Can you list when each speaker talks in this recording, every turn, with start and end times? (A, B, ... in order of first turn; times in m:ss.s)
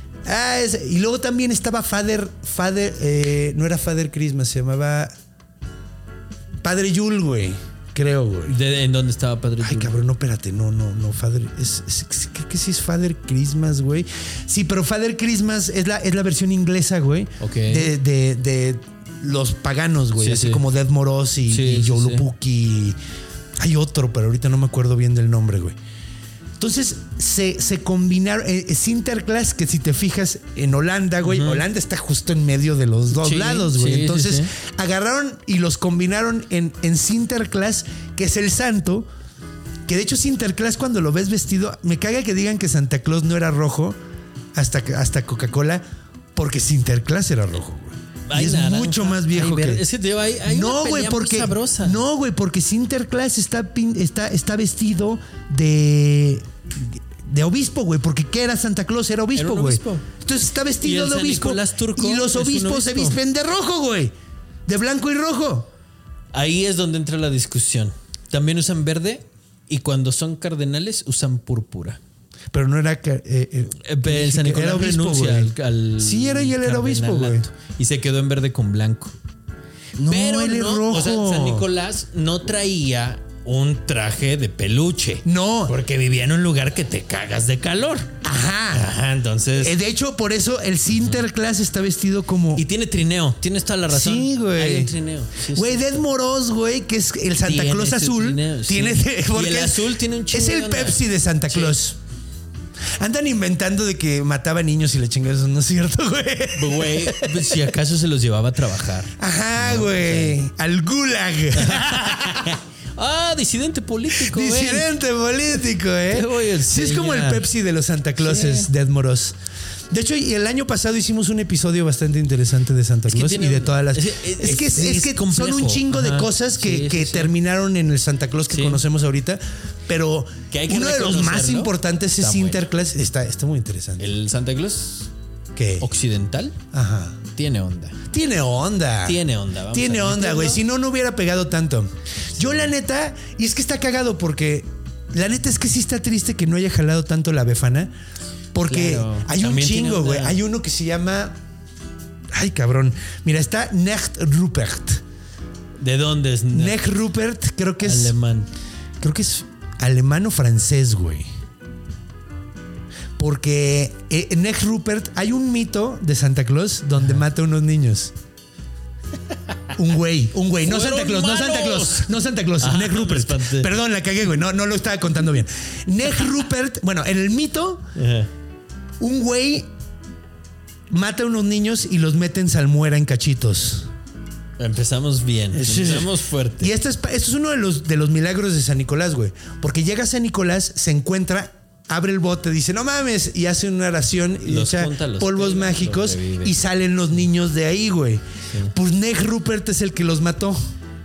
0:00.2-0:05.1 A
0:06.6-0:08.6 A
0:08.5-0:09.9 B
0:09.6-0:23.0 A
0:17.4-0:17.9 B
0:20.2-0:20.6 B
0:21.5-0:22.3 B
0:23.6-0:25.8 A
0:26.6-0:39.1 A
0:31.2-0:31.6 B
0:33.1-0:34.5 B
0:39.9-0:44.0 A
0:44.6-0:45.8 A
0:46.4-0:49.8 A
0:48.3-0:52.0 B
0:50.5-1:04.1 A
0:59.4-1:00.1 B
1:00.8-1:03.2 B
1:04.7-1:05.7 A
1:06.3-1:12.0 B
1:12.5-1:17.5 A
1:13.8-1:19.1 B
1:20.0-1:21.6 A
1:20.1-1:28.1 B
1:25.2-1:25.8 A
1:28.2-1:28.9 A
1:28.7-1:29.8 B
1:29.6-1:32.6 A
1:32.6-1:35.8 B
1:33.9-1:34.9 A
1:35.4-1:42.0 A
1:37.4-1:41.8 B
1:43.0-1:47.6 A
1:46.6-1:50.4 B
1:49.2-1:52.5 A
1:51.6-1:54.9 B
1:54.1-1:59.4 A
1:56.1-1:57.5 B
1:58.2-1:58.7 B
1:59.9-2:14.1 A
2:03.1-2:07.3 B
2:08.5-2:08.8 B
2:10.5-2:12.6 B
2:14.0-2:15.1 B
2:15.6-2:15.9 A
2:15.8-2:16.6 B
2:16.7-2:17.2 A
2:17.4-2:18.0 B
2:18.1-2:19.2 A
2:19.0-2:20.6 B
2:19.7-2:27.9 A
2:28.5-2:31.4 A
2:28.7-2:30.4 B
2:32.3-2:35.0 A
2:35.8-2:36.8 B
2:36.5-2:38.2 A
2:37.8-2:38.5 B
2:39.0-2:41.3 A
2:43.2-2:48.1 A
2:49.8-2:57.9 A
2:50.6-2:53.7 B
2:58.0-2:58.3 B
2:59.0-2:59.7 A
3:00.9-3:03.9 A
3:04.6-3:06.7 B
3:05.5-3:20.7 A
3:14.4-3:16.6 B